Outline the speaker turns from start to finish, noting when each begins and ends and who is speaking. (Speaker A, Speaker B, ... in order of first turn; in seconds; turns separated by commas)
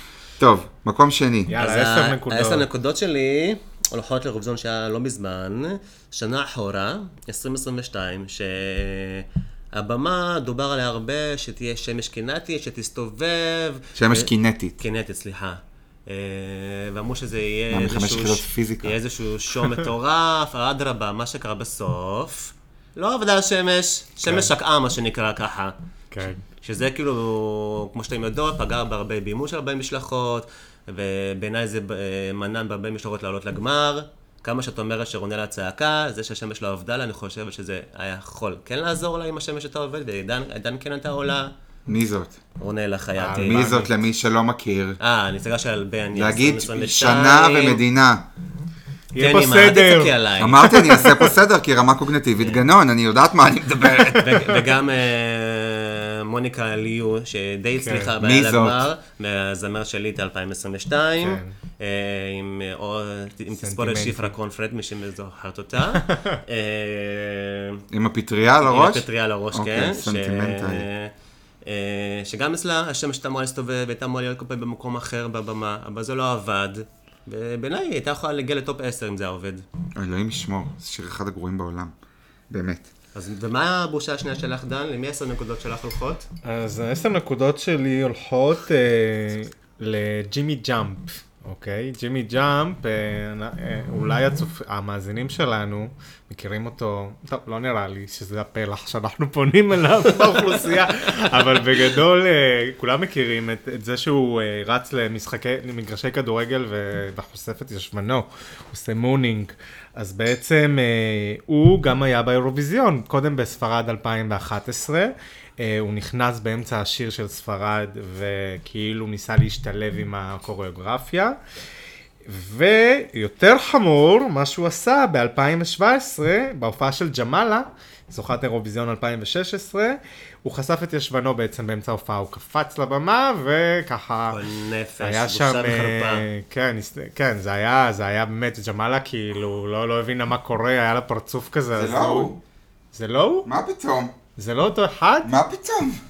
Speaker A: 0.4-1.5, Speaker B: 1.5-2.7, Speaker C: 1.6-25.7, Speaker A: 14.0-14.8, Speaker A: 17.7-19.0, Speaker B: 26.1-26.4, Speaker C: 26.6-41.5, Speaker A: 41.9-42.4, Speaker C: 42.6-43.7, Speaker B: 43.2-43.9, Speaker A: 43.4-45.0, Speaker C: 45.0-47.8, Speaker A: 46.1-48.2, Speaker B: 49.1-51.3, Speaker C: 49.2-50.8, Speaker A: 50.4-54.5, Speaker C: 54.1-67.8, Speaker B: 57.8-58.1, Speaker A: 58.2-58.9, Speaker B: 61.2-61.5, Speaker B: 63.6-64.3, Speaker B: 66.1-66.4, Speaker A: 67.9-70.8, Speaker C: 68.6-71.1, Speaker C: 71.6-79.7, Speaker A: 80.0-81.9, Speaker A: 82.5-82.9, Speaker C: 83.1-86.3, Speaker B: 86.4-121.4, Speaker B: 122.3-134.4, Speaker C: 134.3-136.3, Speaker B: 135.0-142.3, Speaker A: 141.8-142.4, Speaker B: 142.9-143.5, Speaker A: 143.4-144.1, Speaker B: 144.4-145.3, Speaker A: 145.2-146.0